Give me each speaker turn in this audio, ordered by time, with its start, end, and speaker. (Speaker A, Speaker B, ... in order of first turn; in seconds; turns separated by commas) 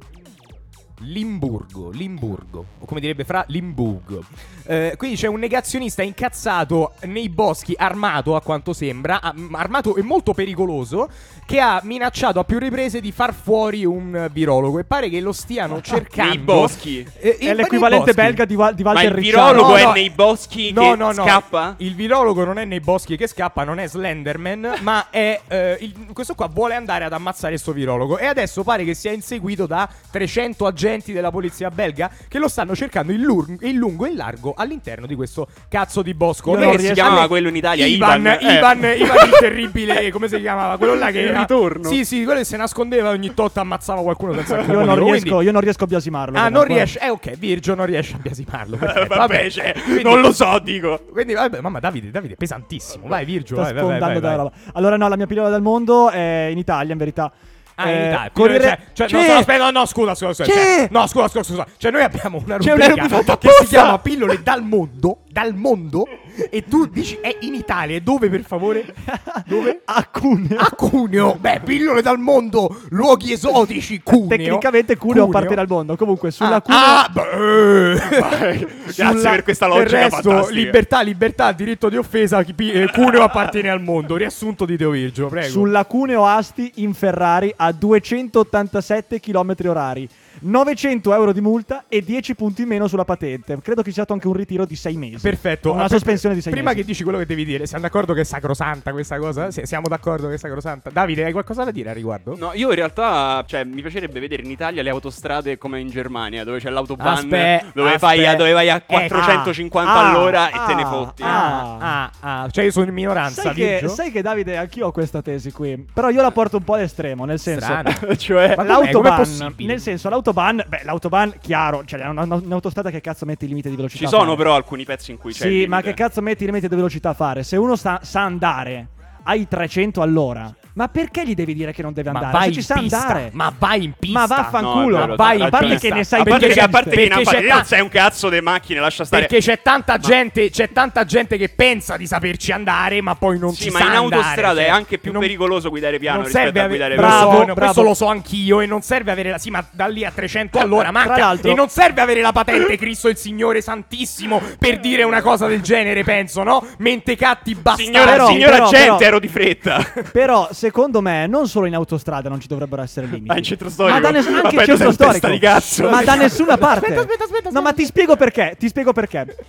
Speaker A: 1.0-18.4, Speaker B: 15.9-17.1, Speaker C: 17.4-19.9, Speaker B: 18.9-21.8, Speaker A: 19.5-20.1, Speaker A: 20.7-45.4, Speaker C: 36.5-37.3, Speaker B: 36.5-39.5, Speaker B: 40.9-42.0, Speaker C: 44.5-46.9, Speaker A: 46.3-50.3, Speaker B: 48.8-51.0, Speaker A: 51.1-54.4, Speaker C: 53.5-59.5, Speaker A: 57.8-68.9, Speaker B: 60.5-60.8, Speaker B: 62.6-64.0, Speaker C: 69.0-70.8, Speaker A: 69.5-69.8, Speaker A: 70.6-75.6, Speaker C: 74.1-77.0, Speaker A: 76.4-78.5, Speaker B: 78.1-80.8, Speaker C: 78.9-79.4, Speaker A: 79.7-85.7, Speaker C: 85.4-96.8, Speaker A: 95.2-102.4, Speaker B: 102.3-111.6, Speaker A: 107.0-109.5, Speaker C: 109.8-111.9, Speaker A: 111.2-114.0, Speaker C: 113.3-117.9, Speaker A: 117.5-119.9, Speaker B: 117.9-118.6, Speaker C: 118.6-124.5, Speaker B: 124.0-126.0, Speaker C: 125.3-133.3, Speaker A: 132.1-137.7, Speaker C: 134.1-137.0, Speaker B: 134.6-139.3, Speaker A: 139.1-145.3, Speaker B: 143.5-147.5, Speaker A: 146.1-158.5, Speaker C: 146.9-147.9, Speaker C: 151.0-151.6, Speaker B: 157.7-160.1, Speaker C: 158.0-159.1, Speaker C: 160.1-169.3, Speaker B: 163.3-166.4, Speaker A: 165.8-167.9